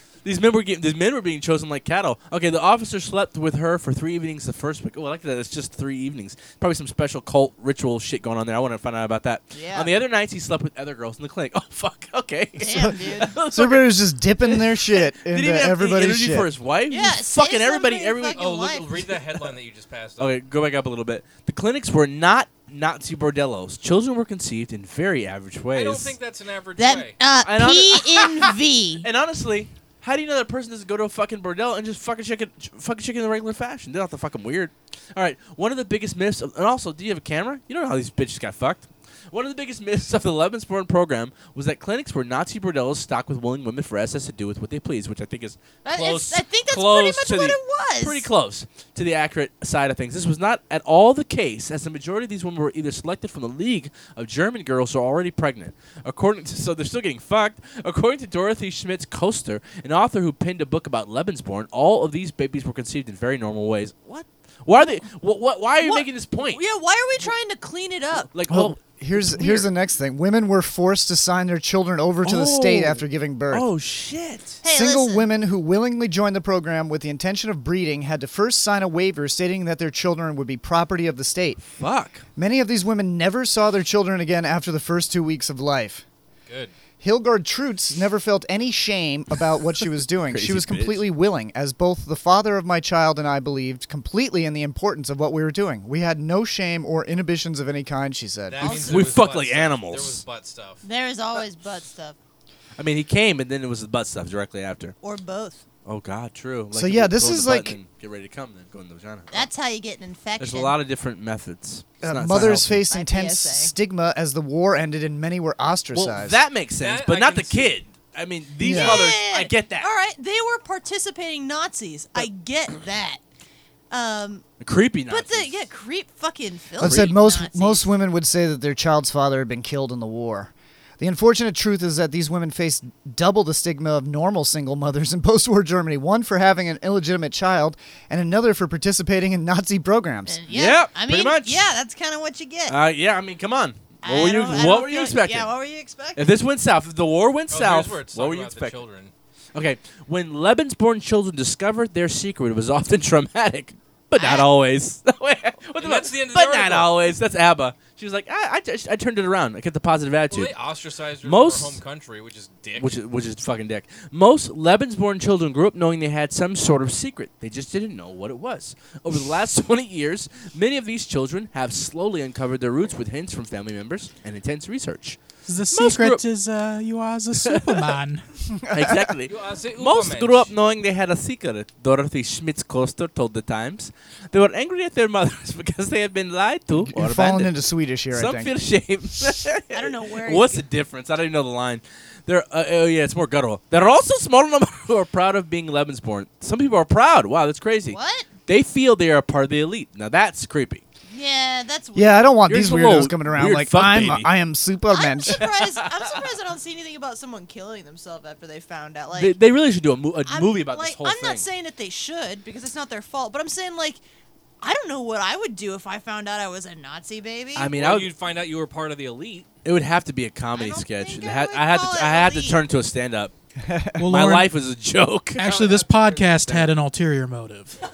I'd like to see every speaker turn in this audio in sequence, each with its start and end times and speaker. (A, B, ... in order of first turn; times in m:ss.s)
0:00.2-0:19.5 A
0:09.5-0:09.9 B
0:12.6-0:13.3 B
0:12.7-0:16.5 C
0:16.9-0:18.9 B
0:18.3-0:20.4 D
0:20.2-0:26.2 A
0:25.7-0:27.2 D
0:26.8-0:29.0 B
0:27.4-1:04.1 A
0:45.8-0:48.3 B
1:04.6-1:06.6 A
1:05.8-1:08.3 B
1:08.3-1:09.7 A
1:08.5-1:13.6 C
1:12.2-1:14.6 A
1:14.6-1:15.2 B
1:14.7-1:21.6 C
1:21.7-1:22.2 A
1:22.4-1:26.0 C
1:26.5-1:26.7 D
1:27.0-1:38.6 C
1:30.3-1:31.0 A
1:38.5-1:40.8 D
1:38.6-1:39.1 B
1:38.6-1:40.2 A
1:40.8-1:42.2 B
1:42.8-1:45.0 A
1:45.0-1:45.6 B
1:45.8-1:49.4 A
1:46.7-1:47.8 C
1:49.3-1:50.7 B
1:50.4-1:52.8 A
1:52.0-1:56.4 C
1:52.9-1:53.7 B
1:55.9-1:59.9 A
1:56.8-1:57.8 D
1:58.6-1:59.1 C
1:58.6-2:03.2 B
2:03.9-2:04.4 B
2:04.6-2:05.6 A
2:05.1-2:07.8 B
2:06.8-2:20.4 C
2:06.8-2:07.1 A
2:20.3-2:22.8 B
2:20.5-2:21.7 A
2:22.7-2:25.5 A
2:24.0-2:26.3 B
2:26.1-2:28.8 A
2:27.5-2:29.1 D
2:29.5-2:40.6 A
2:34.1-2:34.5 B
2:35.8-2:37.1 D
2:40.3-2:43.0 D
2:41.2-2:41.8 A
2:42.8-2:55.2 A
2:55.5-2:58.2 E
2:55.7-2:56.2 A
2:57.4-2:57.9 A
2:58.7-2:59.0 C
2:58.7-3:07.5 A
2:59.3-3:00.5 D
3:06.8-3:08.5 C
3:08.1-3:20.8 A
3:09.7-3:10.6 B
3:17.9-3:18.3 B
3:21.1-3:22.3 B
3:21.9-3:25.4 C
3:22.5-3:24.3 A
3:24.9-3:29.3 B
3:25.6-3:26.2 A
3:29.1-3:31.4 A
3:30.3-3:34.0 B
3:34.6-3:37.7 B
3:37.6-3:38.1 A
3:37.7-3:39.5 D
3:39.6-3:43.3 A
3:40.6-3:42.6 B
3:43.6-3:44.1 C
3:44.0-3:44.5 E
3:44.1-3:45.7 A
3:45.4-3:47.8 E
3:46.4-3:46.7 A